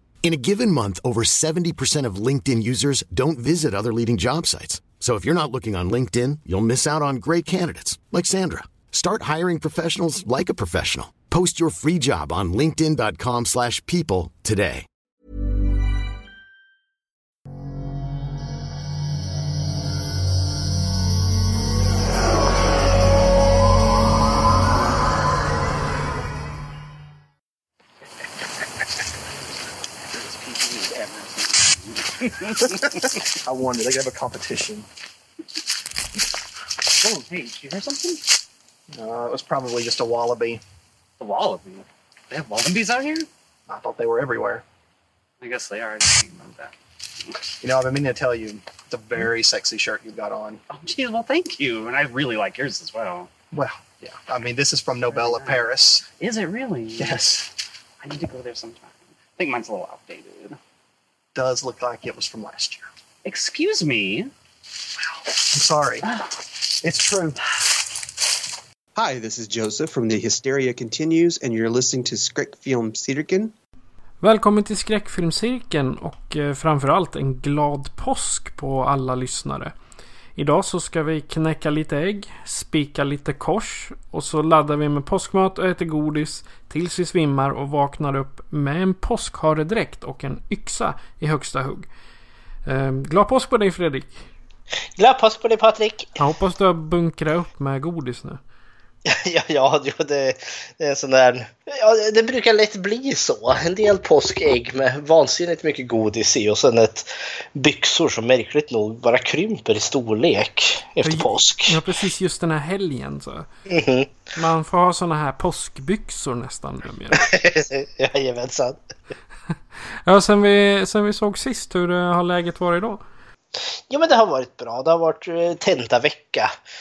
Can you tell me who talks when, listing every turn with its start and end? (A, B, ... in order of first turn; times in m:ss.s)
0:00.2-0:14.9 A
0:30.2-0:33.1 B
0:32.6-0:34.9 C
0:37.0-0:38.2 B
0:38.9-0:40.6 C
0:41.2-0:43.3 B
0:43.7-0:44.6 C
0:45.4-0:46.8 B
0:47.6-0:50.6 C
0:50.7-0:53.3 B
0:53.5-0:56.0 C
0:55.1-0:55.6 B
0:56.2-0:57.4 B
0:57.0-0:57.5 C
0:58.0-1:00.6 B
1:01.3-1:02.9 C
1:03.2-1:04.3 B
1:05.5-1:06.0 C
1:06.8-1:07.4 C
1:09.0-1:13.5 D
1:14.2-1:19.7 E
1:20.4-1:31.9 E
1:32.6-1:34.3 E
1:35.0-1:36.1 F
1:36.2-1:38.4 E
1:39.1-1:51.8 F
1:51.0-1:53.5 E
1:53.7-1:54.1 F
1:54.4-1:57.3 E
1:57.2-1:58.8 F
2:00.0-2:03.0 E
2:03.9-2:06.5 F